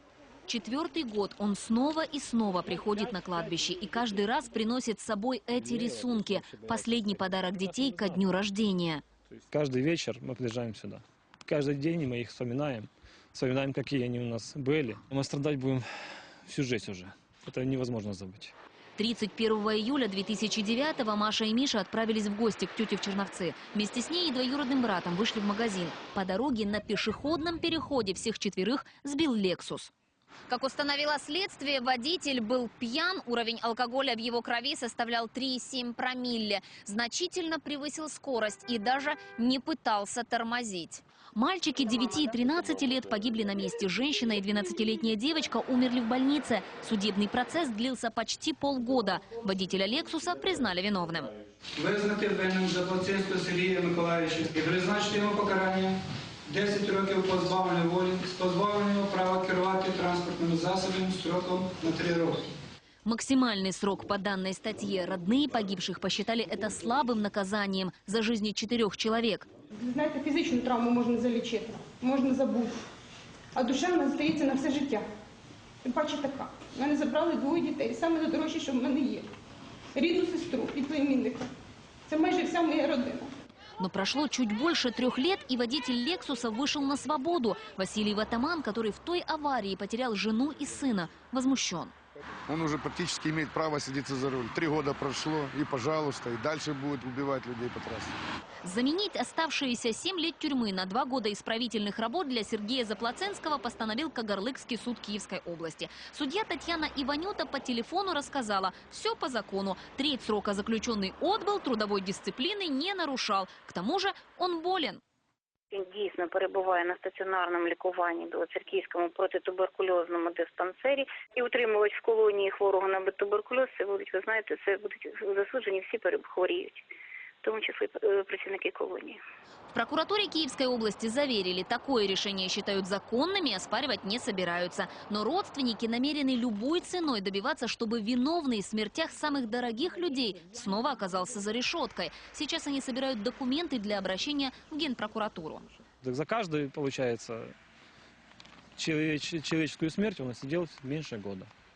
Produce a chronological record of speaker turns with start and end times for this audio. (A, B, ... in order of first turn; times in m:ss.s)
0:00.5-0:09.0 A
0:05.7-0:08.2 B
0:09.3-0:15.9 B
0:16.4-0:18.5 B
0:19.0-0:29.9 A
0:30.5-0:51.3 A
0:51.8-1:02.4 C
1:03.0-1:09.5 A
1:09.7-1:12.8 D
1:13.6-1:15.0 D
1:15.8-1:19.3 D
1:20.0-1:21.5 D
1:22.1-1:23.3 D
1:23.8-1:31.9 A
1:32.5-1:38.2 E
1:38.6-1:55.0 A
1:55.7-2:06.8 F
2:07.4-2:09.2 F
2:09.7-2:25.7 A
2:26.0-2:27.6 B
2:28.8-2:31.5 B